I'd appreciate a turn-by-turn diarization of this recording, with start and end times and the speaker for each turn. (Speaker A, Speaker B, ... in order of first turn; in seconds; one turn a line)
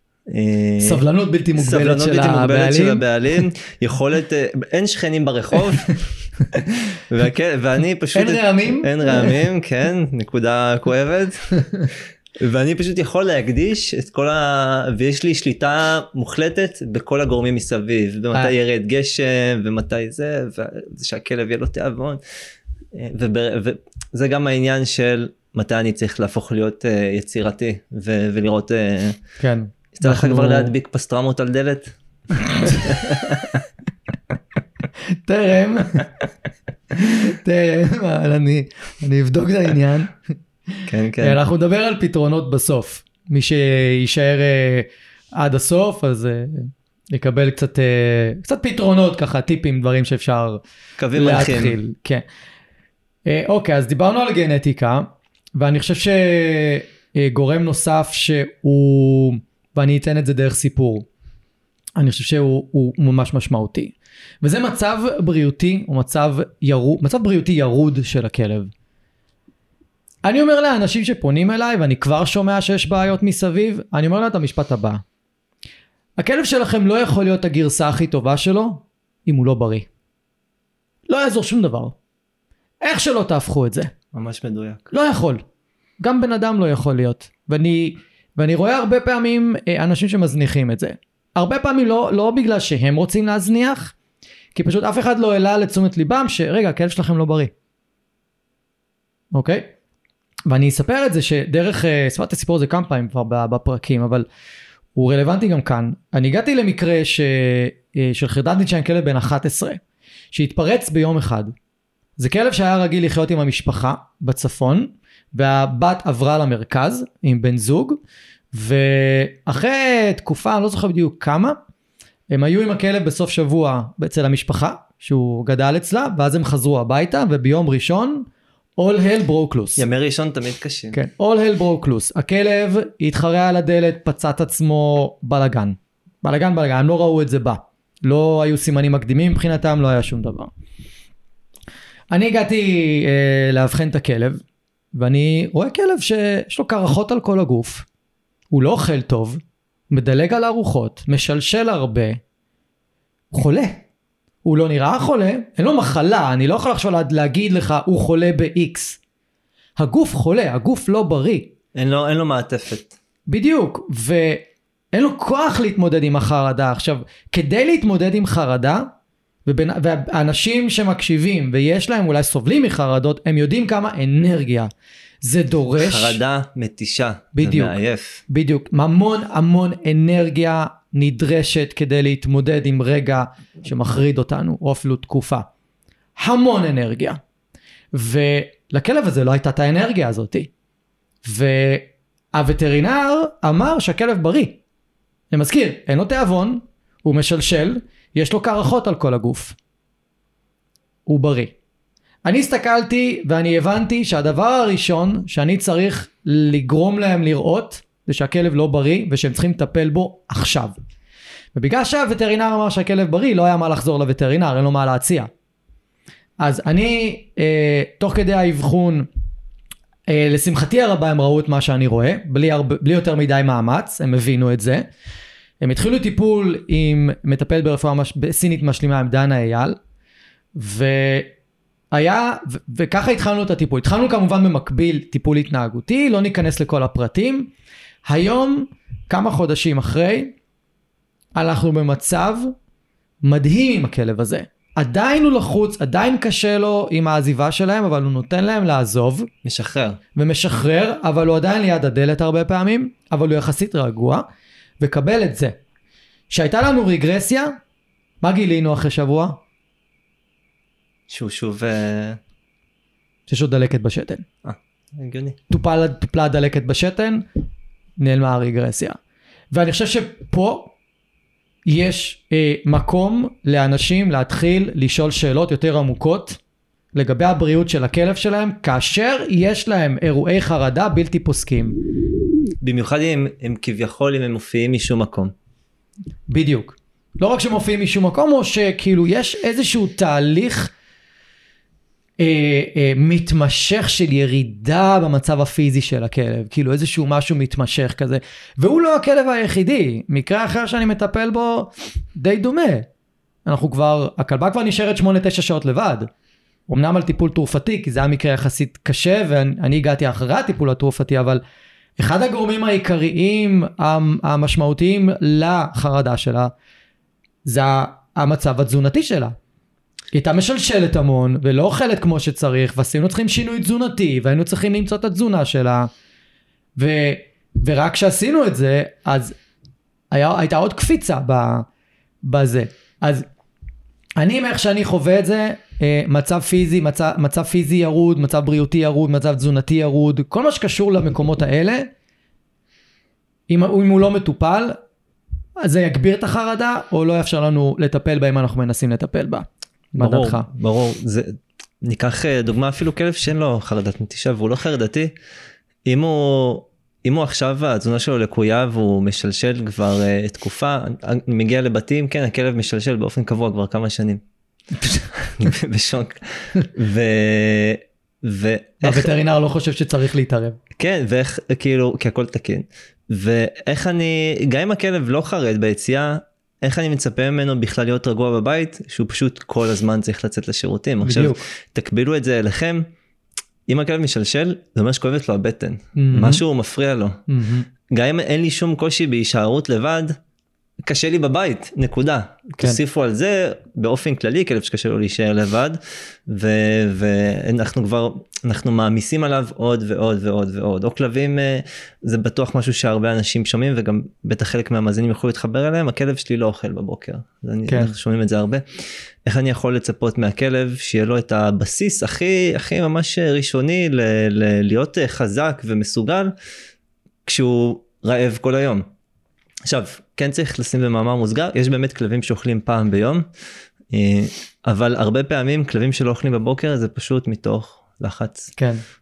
Speaker A: 0.3-1.0
Speaker B: 0.8-3.0
Speaker A: 1.6-22.2
Speaker B: 8.1-9.4
Speaker A: 22.9-29.2
Speaker B: 29.4-30.7
Speaker A: 29.9-31.9
Speaker B: 32.4-33.6
Speaker A: 32.6-33.6
Speaker B: 35.1-36.1
Speaker B: 36.9-40.2
Speaker B: 40.7-50.6
Speaker A: 40.9-41.4
Speaker A: 51.0-51.8
Speaker B: 51.1-52.2
Speaker B: 53.2-61.1
Speaker B: 62.0-68.7
Speaker B: 70.2-75.0
Speaker B: 76.2-79.9
Speaker B: 81.1-82.0
Speaker B: 82.8-83.9
Speaker A: 84.1-84.9
Speaker B: 84.9-85.4
Speaker B: 86.0-93.9
Speaker B: 94.5-97.5
Speaker B: 99.3-99.7
Speaker B: 100.5-104.2
Speaker B: 105.0-109.8
Speaker B: 110.3-111.5
Speaker B: 112.2-118.0
Speaker B: 118.5-121.6
Speaker B: 122.3-129.8
Speaker A: 129.8-131.0
Speaker B: 130.9-140.5
Speaker B: 142.1-144.4
Speaker B: 144.9-147.9
Speaker B: 148.5-152.2
Speaker B: 153.3-153.8
Speaker B: 154.4-159.0
Speaker B: 159.8-161.5
Speaker A: 161.8-162.9
Speaker B: 163.3-168.9
Speaker B: 169.5-174.7
Speaker B: 175.2-176.2
Speaker A: 175.8-178.2
Speaker B: 177.4-177.8
Speaker B: 178.3-185.5
Speaker B: 186.2-187.2
Speaker B: 187.9-190.5
Speaker B: 191.2-194.6
Speaker B: 195.3-199.6
Speaker B: 201.1-201.5
Speaker B: 202.2-210.8
Speaker B: 211.5-215.3
Speaker B: 216.4-219.1
Speaker B: 220.1-224.8
Speaker B: 225.6-229.8
Speaker B: 230.6-231.3
Speaker B: 231.9-237.5
Speaker B: 238.1-240.3
Speaker B: 241.4-242.5
Speaker B: 243.2-249.3
Speaker A: 249.4-250.0
Speaker B: 250.2-254.2
Speaker B: 254.8-255.6
Speaker B: 256.3-257.5
Speaker B: 258.2-259.4
Speaker A: 261.1-262.2
Speaker B: 263.3-264.2
Speaker A: 264.4-265.4
Speaker B: 265.5-267.2
Speaker B: 268.0-269.0
Speaker B: 269.5-270.7
Speaker B: 271.7-276.4
Speaker B: 276.9-281.8
Speaker A: 282.6-285.3
Speaker B: 286.3-290.7
Speaker B: 292.2-302.9
Speaker B: 303.5-306.1
Speaker B: 306.7-311.4
Speaker B: 312.0-316.5
Speaker B: 317.5-319.4
Speaker B: 320.1-325.9
Speaker B: 326.8-329.4
Speaker B: 330.1-331.7
Speaker B: 332.2-333.2
Speaker B: 334.2-341.9
Speaker B: 343.5-344.8
Speaker B: 345.6-350.5
Speaker A: 350.0-355.1
Speaker A: 355.9-364.2
Speaker B: 364.8-365.1
Speaker A: 365.1-369.1
Speaker B: 368.8-370.6
Speaker A: 370.8-382.8
Speaker B: 381.0-381.4
Speaker A: 383.7-387.2
Speaker B: 386.0-386.4
Speaker B: 387.3-387.7
Speaker A: 387.9-390.1
Speaker A: 390.8-416.3
Speaker B: 407.7-407.9
Speaker A: 417.2-418.9
Speaker A: 419.6-423.2
Speaker A: 423.9-428.5
Speaker B: 428.6-428.8